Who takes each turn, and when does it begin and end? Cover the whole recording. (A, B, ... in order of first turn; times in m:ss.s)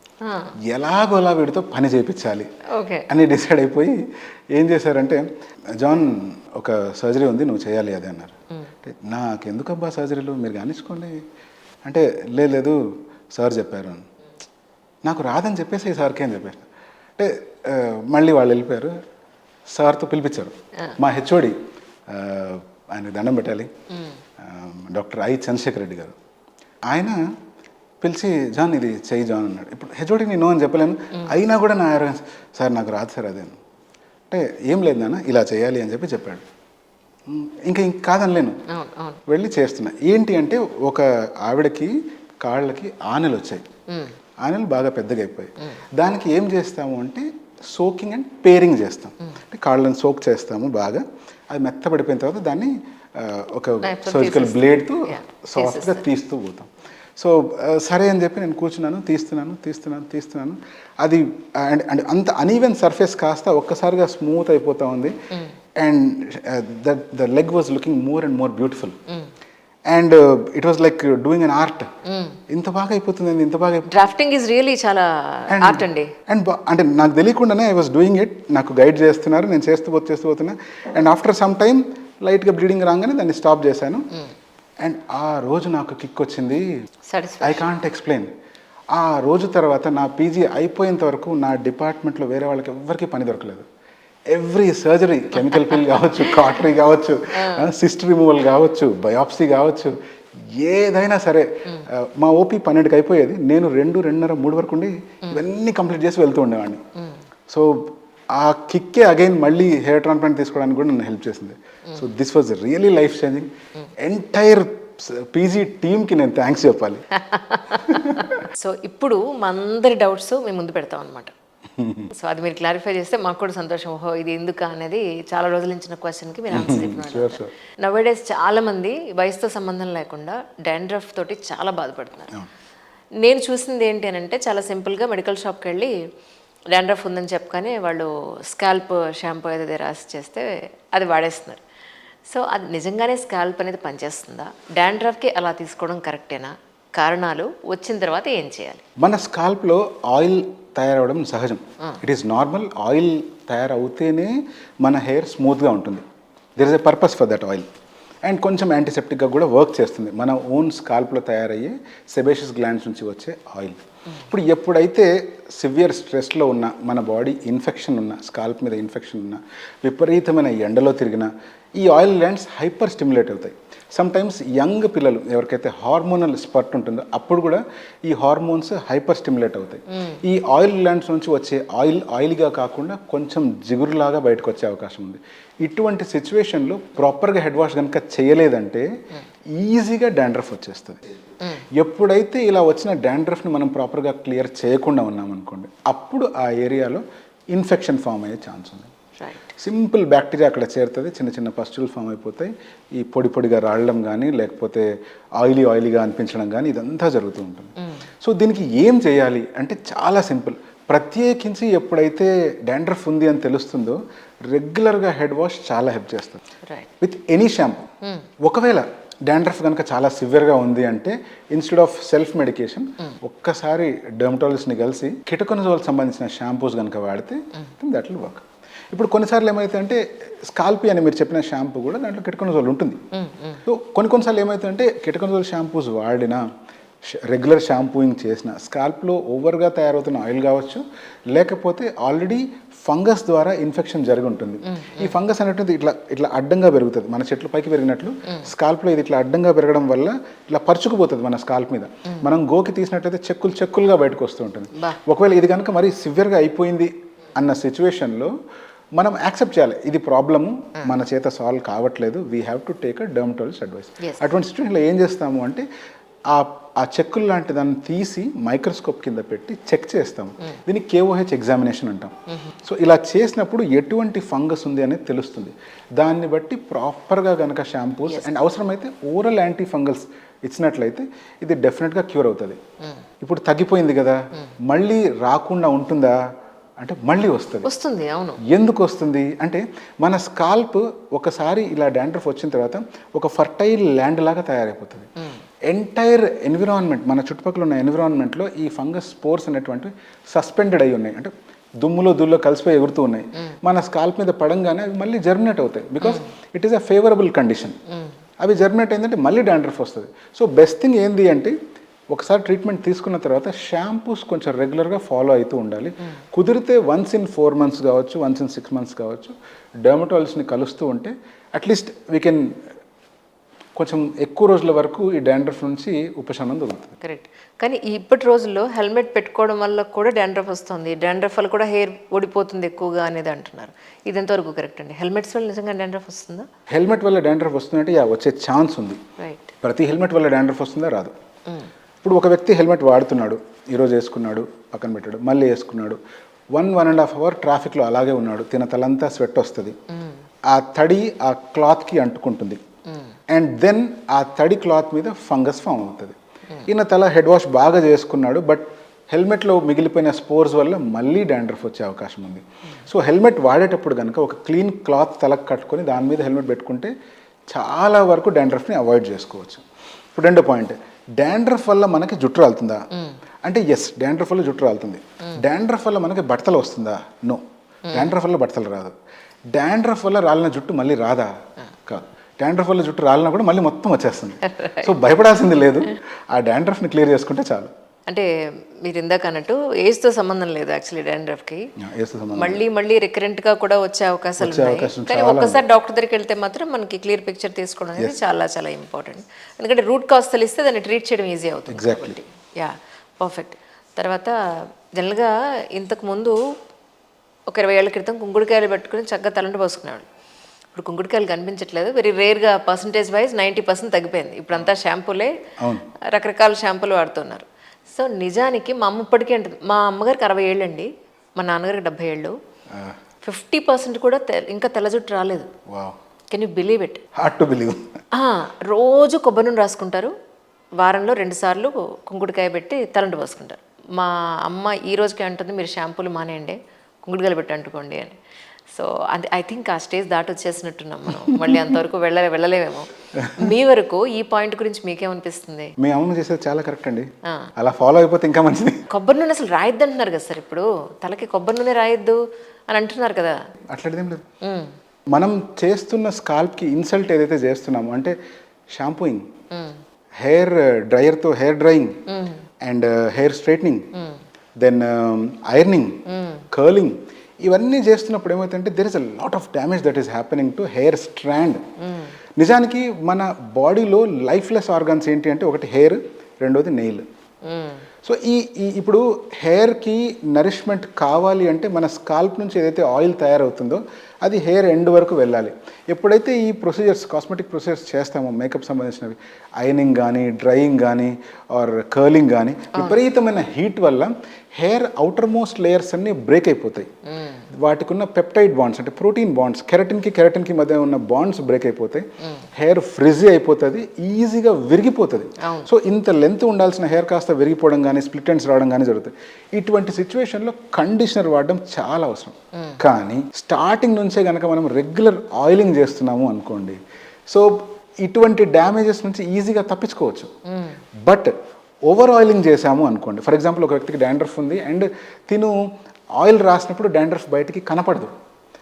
0:00.2-0:00.5 A
0:00.6-0:02.5 B
0:02.7-0:03.1 A
0:03.1-0:04.0 B
0:04.5-0:05.2 B
0:05.8-0:11.2 B
0:11.8-0:12.8 B
0:13.3-0:14.0 B
0:15.0-0:16.6 B
0:17.2-0:19.0 B
0:19.7-0:23.7 B
0:23.9-0:24.2 A
0:24.4-0:26.1 B
0:26.9-0:27.2 B
0:28.0-0:33.6 B
0:34.3-0:36.4 B
0:37.3-0:38.6 B
0:38.7-0:39.2 A
0:39.2-0:43.6 B
0:43.9-0:44.1 A
0:44.4-1:05.1 B
0:53.8-0:56.0 A
1:05.8-1:09.0 B
1:09.9-1:11.9 B
1:12.0-1:12.4 A
1:12.5-1:13.9 B
1:13.9-1:16.1 A
1:15.5-1:24.1 B
1:24.8-1:26.6 B
1:27.1-1:27.7 A
1:27.4-1:28.3 B
1:28.9-1:33.6 B
1:34.3-1:40.0 B
1:35.5-1:36.6 A
1:37.3-1:37.6 A
1:40.5-1:46.8 B
1:47.5-1:57.1 B
1:57.2-2:01.3 A
1:57.6-1:58.4 B
2:01.8-2:02.1 B
2:02.1-2:12.3 A
2:06.5-2:07.5 B
2:13.2-2:15.9 A
2:16.7-2:21.6 A
2:22.3-2:28.8 A
2:29.0-2:36.0 B
2:36.6-2:37.7 B
2:38.2-3:08.9 B
2:59.9-3:00.2 A
3:09.5-3:11.0 B
3:11.7-3:18.9 B
3:19.2-3:19.5 A
3:19.6-3:36.4 B
3:27.8-3:28.0 A
3:36.6-3:36.9 A
3:37.0-3:37.9 B
3:38.0-3:38.3 A
3:38.4-3:53.0 B
3:53.1-3:53.6 A
3:53.6-3:56.4 B
3:57.1-4:18.3 B
4:04.6-4:05.1 A
4:19.0-4:25.6 B
4:26.3-4:42.6 B
4:32.3-4:32.5 A
4:43.2-4:46.2 B
4:46.8-4:47.7 B
4:47.6-4:48.4 A
4:48.4-4:55.1 B
4:55.7-5:07.8 B
5:07.9-5:08.1 A
5:08.4-5:11.5 B
5:12.1-5:19.3 B
5:19.8-5:22.6 B
5:23.8-5:26.9 B
5:27.0-5:36.5 A
5:36.7-5:39.0 B
5:39.2-5:39.5 A
5:39.6-5:41.1 B
5:42.0-5:46.0 B
5:46.5-5:49.8 B
5:49.9-5:50.2 A
5:50.5-5:52.6 B
5:53.3-5:56.1 B
5:56.6-6:06.9 B
6:07.5-6:09.6 B
6:10.2-6:12.8 B
6:13.4-6:18.9 B
6:19.5-6:21.3 B
6:21.9-6:27.7 B
6:24.4-6:24.9 A
6:28.8-6:31.7 A
6:31.8-6:32.6 B
6:32.3-6:46.4 A
6:34.4-6:35.6 B
6:41.7-6:42.2 B
6:47.5-6:50.1 A
6:50.7-6:55.3 A
6:55.6-6:55.9 B
6:56.1-7:02.4 A
7:03.2-7:05.5 A
7:05.7-7:06.0 B
7:06.3-7:07.0 A
7:07.2-7:07.9 B
7:08.1-7:10.1 A
7:10.8-7:18.2 A
7:18.7-7:25.7 A
7:21.3-7:21.6 B
7:23.2-7:23.5 B
7:25.8-7:28.8 B
7:27.2-7:27.5 A
7:28.9-7:33.4 A
7:33.7-7:34.2 B
7:34.4-7:34.8 A
7:35.1-7:38.1 B
7:38.7-7:39.3 B
7:39.5-7:39.8 A
7:40.2-7:42.0 B
7:42.1-7:42.4 A
7:42.6-7:43.9 B
7:43.9-7:44.2 A
7:44.6-7:51.6 B
7:46.1-7:46.4 A
7:51.8-7:52.1 A
7:52.4-7:57.0 B
7:57.4-7:57.8 A
7:58.0-8:16.9 B
8:17.1-8:17.4 A
8:17.5-8:40.3 B
8:25.4-8:25.7 A
8:40.5-8:40.8 A
8:41.0-8:41.3 B
8:41.9-8:45.6 B
8:46.2-8:48.1 B